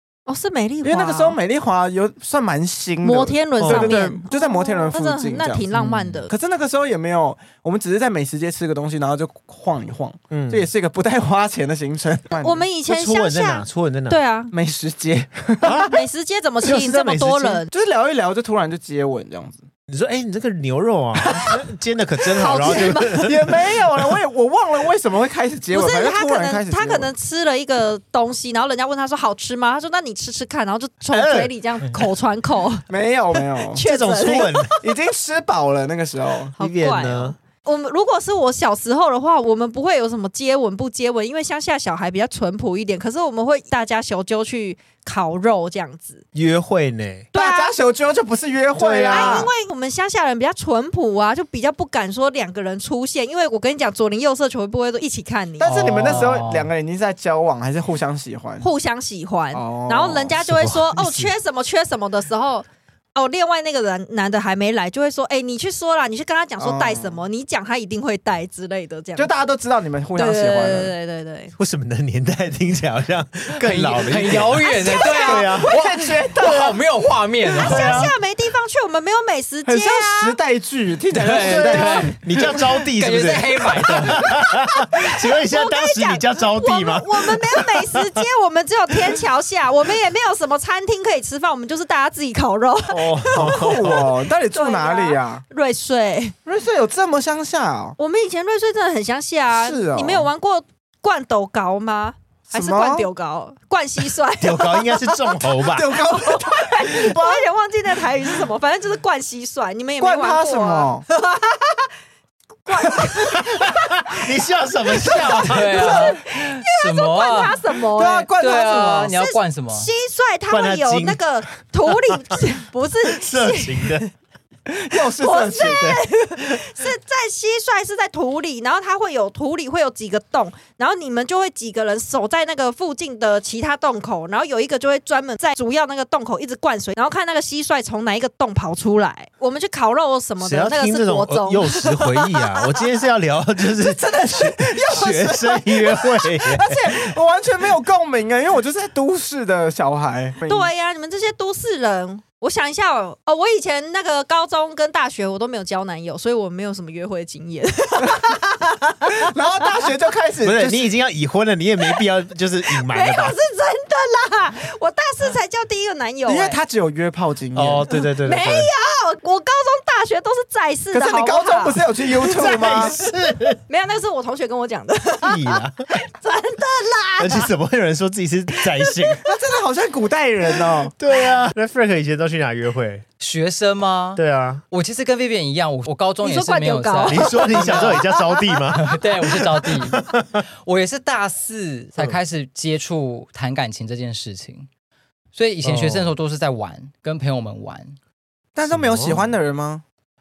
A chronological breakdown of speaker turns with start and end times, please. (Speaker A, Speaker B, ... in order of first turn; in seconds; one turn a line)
Speaker A: 0.3-1.4
Speaker B: 0.8-5.7
Speaker A: 3.0-6.3
Speaker C: 3.6-4.1
Speaker D: 5.7-6.2
Speaker B: 6.3-12.7
Speaker C: 10.3-10.7
Speaker A: 12.3-14.5
Speaker C: 12.9-14.2
Speaker B: 14.5-15.8
Speaker A: 15.7-17.7
Speaker C: 15.7-16.0
Speaker C: 16.6-17.6
Speaker B: 17.7-19.6
Speaker C: 19.9-24.1
Speaker A: 22.3-23.2
Speaker B: 22.8-27.1
Speaker A: 25.7-32.9
Speaker C: 31.1-32.0
Speaker B: 32.9-33.8
Speaker A: 33.6-34.8
Speaker C: 33.8-34.7
Speaker B: 34.8-36.5
Speaker C: 36.6-37.4
Speaker A: 36.6-46.2
Speaker C: 46.3-47.3
Speaker A: 47.3-47.7
Speaker B: 47.3-49.5
Speaker A: 48.7-55.8
Speaker C: 48.9-49.4
Speaker B: 55.6-58.7
Speaker D: 55.6-56.7
Speaker A: 58.6-69.3
Speaker B: 59.5-60.4
Speaker C: 60.4-61.3
Speaker B: 66.6-67.2
Speaker B: 69.2-70.9
Speaker A: 70.1-71.5
Speaker C: 71.6-75.7
Speaker D: 73.6-78.1
Speaker A: 74.7-76.0
Speaker B: 75.3-76.8
Speaker A: 77.5-80.4
Speaker C: 77.6-78.1
Speaker B: 79.7-82.6
Speaker D: 81.1-82.2
Speaker C: 81.4-88.2
Speaker D: 82.9-84.2
Speaker A: 85.0-93.9
Speaker C: 92.9-94.1
Speaker B: 93.3-95.4
Speaker A: 94.5-96.3
Speaker B: 96.4-98.0
Speaker A: 98.0-105.4
Speaker B: 99.5-100.3
Speaker B: 102.5-103.1
Speaker C: 104.4-106.0
Speaker B: 105.7-107.4
Speaker A: 106.1-111.9
Speaker B: 110.0-111.0
Speaker A: 112.7-114.2
Speaker C: 113.5-116.0
Speaker A: 115.0-124.1
Speaker D: 115.4-117.6
Speaker B: 117.9-119.1
Speaker D: 118.3-119.9
Speaker C: 120.5-121.2
Speaker C: 123.1-124.0
Speaker B: 124.7-125.9
Speaker A: 125.0-142.6
Speaker C: 125.6-126.0
Speaker C: 140.4-147.1
Speaker B: 143.8-150.7
Speaker A: 150.5-159.2
Speaker B: 159.1-160.9
Speaker C: 160.4-163.3
Speaker A: 162.7-166.6
Speaker B: 166.2-167.8
Speaker C: 167.5-168.7
Speaker A: 167.9-173.1
Speaker B: 170.9-172.9
Speaker C: 172.3-173.6
Speaker A: 173.7-177.5
Speaker C: 175.2-175.8
Speaker C: 177.2-179.2
Speaker A: 178.8-179.2
Speaker B: 179.2-180.9
Speaker C: 181.0-183.0
Speaker D: 183.2-190.0
Speaker C: 184.2-184.6
Speaker A: 186.2-188.0
Speaker C: 187.1-190.4
Speaker D: 190.6-194.7
Speaker D: 195.3-197.9
Speaker C: 195.6-196.1
Speaker B: 198.5-199.8
Speaker C: 198.7-199.3